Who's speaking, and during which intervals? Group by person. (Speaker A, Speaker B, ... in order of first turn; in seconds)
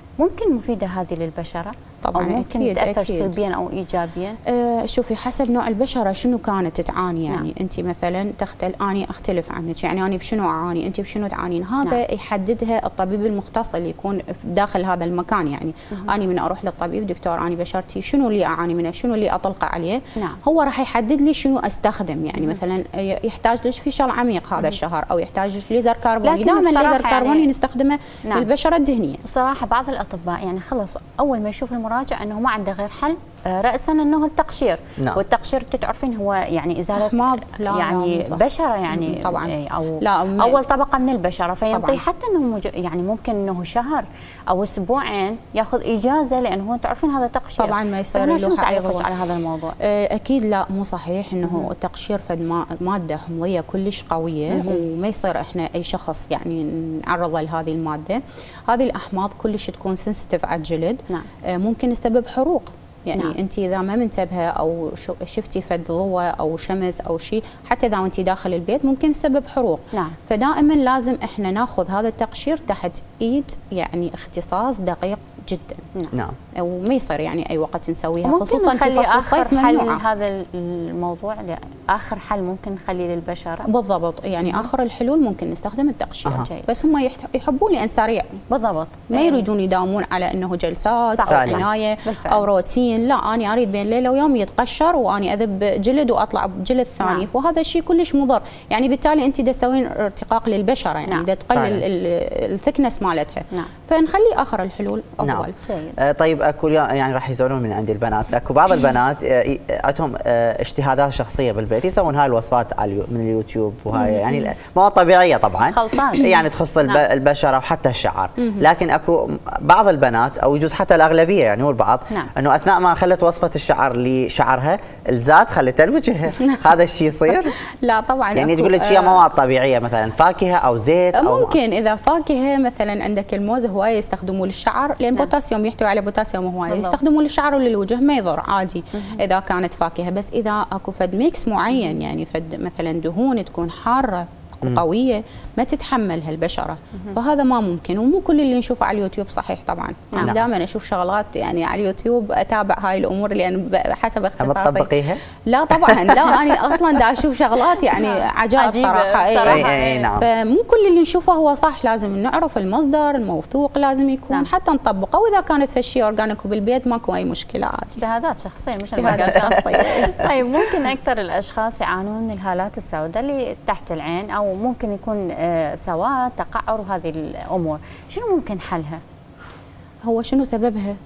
Speaker A: 0.2-4.4, 26.2-27.5, 29.2-49.8, 51.4-51.7, 54.5-54.8, 78.2-83.7, 86.4-86.7, 88.5-89.5, 91.2-92.4, 97.0-97.3, 105.6-106.0, 115.6-117.0, 136.7-137.0, 158.0-160.1, 167.9-179.0
Speaker B: 2.0-3.3, 4.5-29.2, 37.0-40.6, 41.7-42.0, 47.6-49.1, 49.8-75.9, 76.6-80.0, 83.7-88.3, 89.1-105.6, 114.0-114.3, 127.8-129.3, 131.2-154.9, 155.5-168.0, 168.9-170.1, 180.1-181.0
Speaker C: 91.3-91.7, 101.5-101.8, 105.2-127.5, 128.3-131.6, 150.2-150.5, 154.4-155.2, 155.7-156.6, 159.4-160.3